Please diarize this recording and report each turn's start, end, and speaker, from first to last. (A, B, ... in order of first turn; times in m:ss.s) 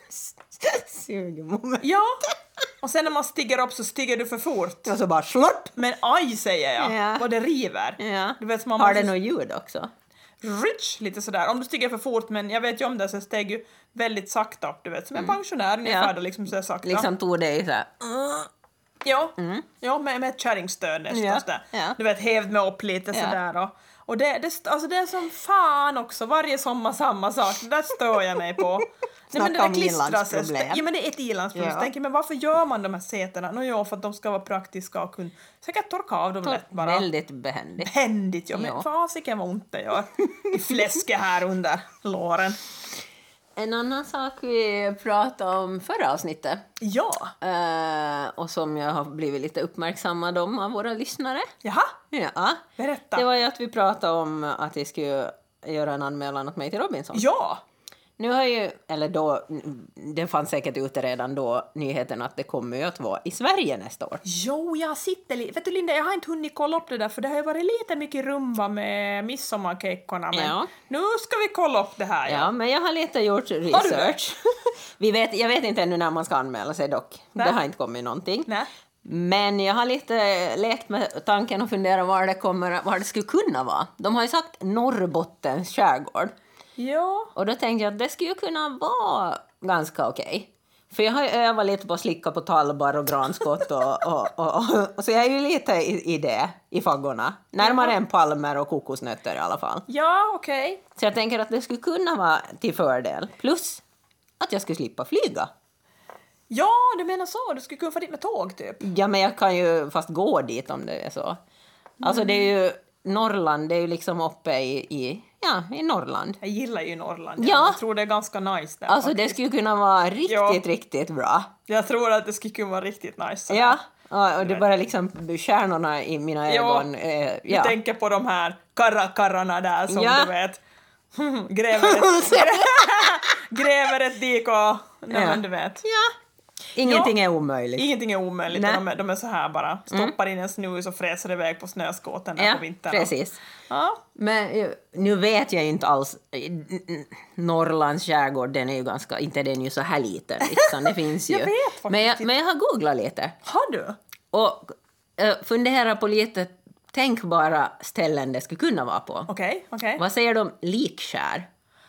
0:00.1-0:01.9 A
0:01.8-0:02.2 B
0:02.8-0:04.9 B
0:04.9-0:05.8 A
0:05.8-0:09.2 B
0:06.8-0:07.3 A
0:08.0-0:09.9 A
0:10.4-0:17.1 B
0:15.2-0:16.1 A
0:16.8-0:18.5 A
0:19.0-0:37.1 B
0:19.4-0:19.7 A
0:21.1-0:22.0 A
0:23.1-0:23.4 A
0:29.3-0:30.8 A
0:31.6-0:31.9 A
0:36.4-0:37.9 A
0:37.8-0:42.6 B
0:38.5-0:38.9 A
0:43.6-0:46.6 A
0:46.8-0:47.3 B
0:47.4-0:51.5 A
0:51.6-0:52.0 B
0:52.1-0:57.3 A
0:52.8-0:53.3 B
0:57.1-0:57.6 B
0:58.2-1:04.2 A
1:04.2-1:12.5 B
1:10.3-1:10.7 A
1:12.3-1:18.5 A
1:13.7-1:14.2 B
1:19.0-1:26.4 A
1:26.8-1:27.3 B
1:27.4-1:39.9 A
1:37.6-1:38.0 B
1:39.9-1:40.8 B
1:41.0-1:43.8 A
1:44.4-1:45.5 A
1:46.5-1:48.8 B
1:48.8-1:51.4 A
1:52.0-1:52.5 B
1:52.0-1:56.4 A
1:56.4-1:59.4 B
1:57.4-1:57.8 A
1:58.9-2:01.5 A
2:00.3-2:00.6 B
2:01.7-2:03.8 B
2:03.5-2:07.8 A
2:04.4-2:04.6 B
2:06.5-2:06.9 B
2:07.5-2:10.6 B
2:09.9-2:10.3 A
2:11.1-2:15.8 B
2:11.8-2:13.1 A
2:15.1-2:16.1 A
2:16.7-2:17.9 A
2:16.8-2:17.2 B
2:17.8-2:24.0 B
2:18.5-2:18.8 A
2:22.4-2:23.4 A
2:24.2-2:33.4 A
2:30.5-2:32.3 B
2:33.4-2:34.0 B
2:34.3-2:39.3 A
2:39.3-2:40.0 B
2:40.0-2:41.5 A